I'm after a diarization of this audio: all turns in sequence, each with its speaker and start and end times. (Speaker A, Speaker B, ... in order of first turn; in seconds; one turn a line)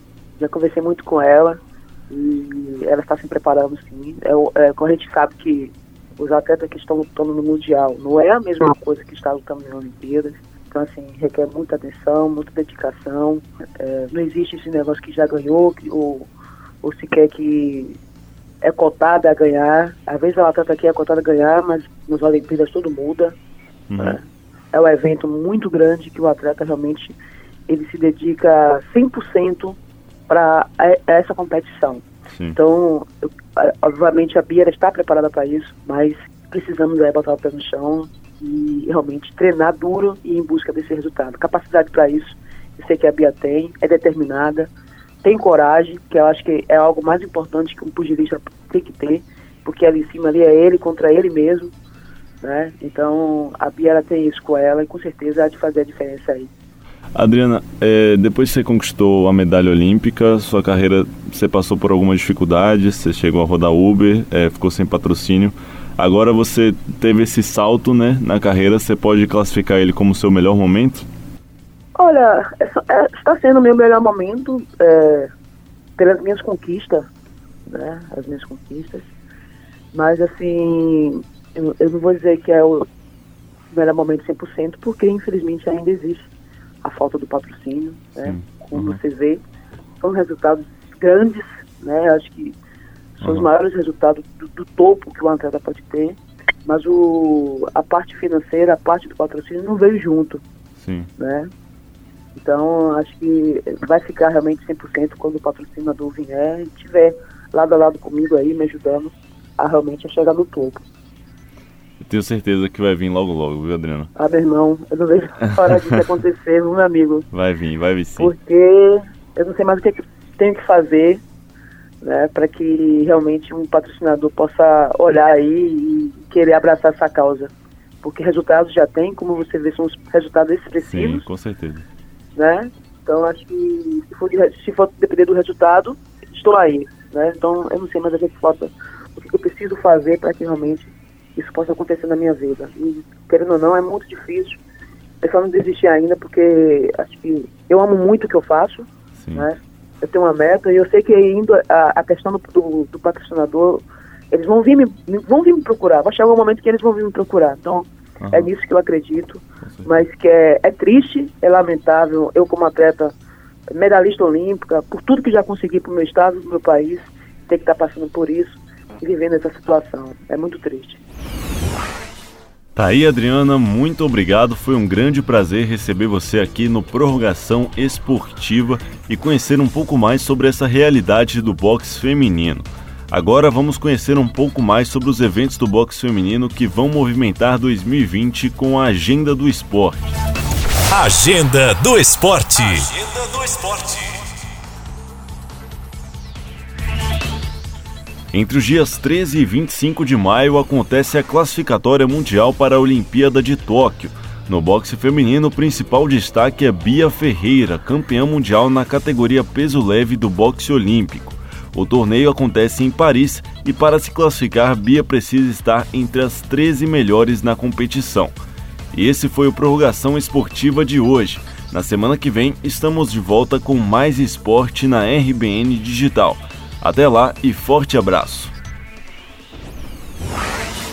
Speaker A: 0.4-16.3
Speaker A: 16.8-18.0
Speaker A: 18.6-23.4
Speaker B: 23.9-24.2
Speaker A: 24.0-27.2
Speaker A: 27.7-44.7
Speaker A: 45.2-51.7
Speaker A: 52.4-56.5
Speaker B: 57.1-71.1
Speaker A: 72.0-75.3
Speaker A: 76.0-77.1
Speaker A: 77.7-79.1
Speaker A: 79.9-82.9
Speaker A: 83.7-86.3
Speaker A: 86.8-89.4
Speaker B: 88.2-89.0
Speaker A: 90.0-92.6
Speaker B: 93.2-93.5
Speaker A: 93.2-100.4
Speaker B: 100.8-101.1
Speaker A: 101.2-101.5
Speaker A: 102.3-110.8
Speaker B: 112.0-114.1
Speaker A: 114.2-117.3
Speaker B: 117.3-118.3
Speaker A: 118.2-121.2
Speaker A: 122.0-131.2
Speaker B: 130.8-131.8
Speaker A: 132.3-144.6
Speaker A: 145.2-163.2
Speaker B: 149.2-149.5
Speaker B: 158.2-158.5
Speaker A: 163.7-171.0
Speaker B: 172.8-190.1
Speaker C: 190.9-194.1
Speaker B: 198.3-218.3
Speaker B: 218.9-228.5